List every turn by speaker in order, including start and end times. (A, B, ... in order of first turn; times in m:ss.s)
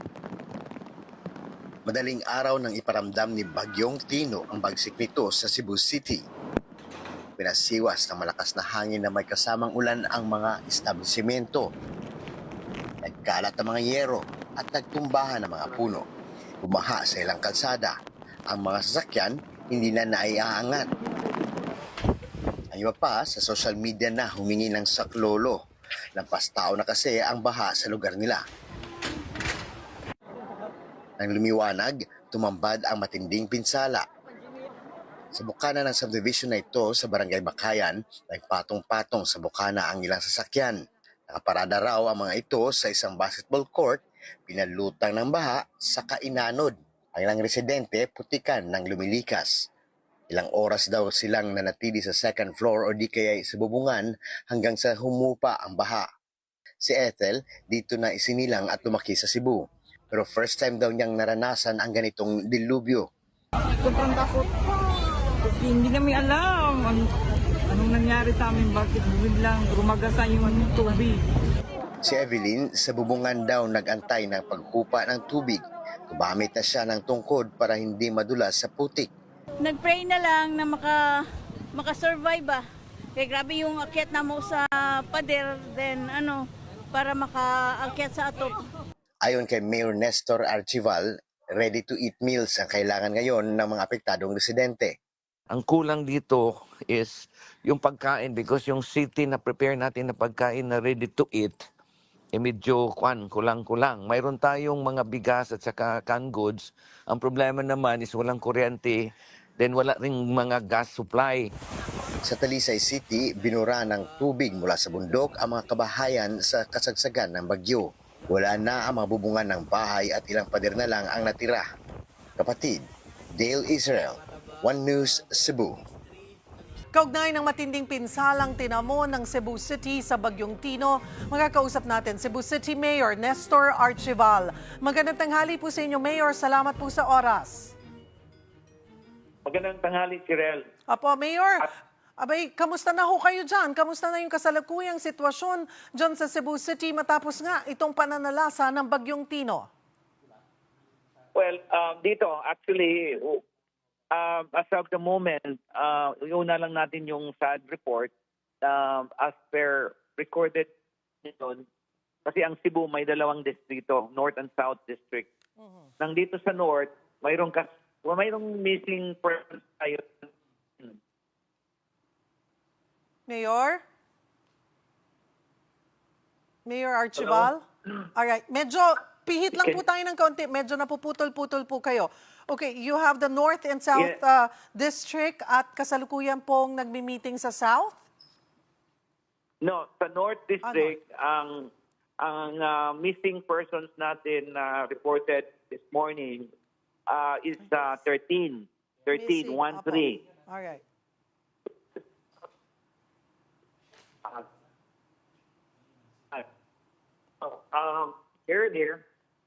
0:01.9-0:06.2 A
0:07.4-0:11.7 A
0:13.0-0:16.1 A
0:16.6-0:18.0 A
0:18.5-0:20.9 A
0:22.7-0:25.6 A
0:26.2-0:28.4 A
0:31.2-0:34.0 A
0:35.3-0:40.8 A
0:41.3-0:49.7 A
0:50.3-0:56.1 A
0:56.8-1:03.1 A
1:03.8-1:04.7 B
1:05.4-1:07.1 B
1:07.7-1:11.2 B
1:12.0-1:19.1 A
1:19.6-1:21.0 C
1:21.8-1:22.6 C
1:23.2-1:26.4 C
1:26.9-1:28.5 C
1:29.2-1:34.9 A
1:35.5-1:41.7 D
1:42.3-1:51.5 D
1:52.3-2:01.6 A
2:02.4-2:02.8 A
2:03.4-2:05.8 A
2:06.9-2:17.8 E
2:19.5-2:20.7 F
2:20.9-2:29.7 E
2:31.4-2:33.4 F
2:34.1-2:38.1 F
2:38.6-2:40.7 F
2:41.2-2:41.6 F
2:42.3-2:45.3 F
2:46.0-2:50.3 F
2:53.3-2:53.8 E
2:56.6-2:57.6 E
2:57.2-2:57.5 F
2:58.2-3:08.0 E
3:03.9-3:04.2 F
3:09.6-3:11.7 F
3:10.6-3:11.0 E
3:12.2-3:16.5 F
3:17.1-3:20.2 F
3:19.1-3:20.8 E
3:27.4-3:29.0 F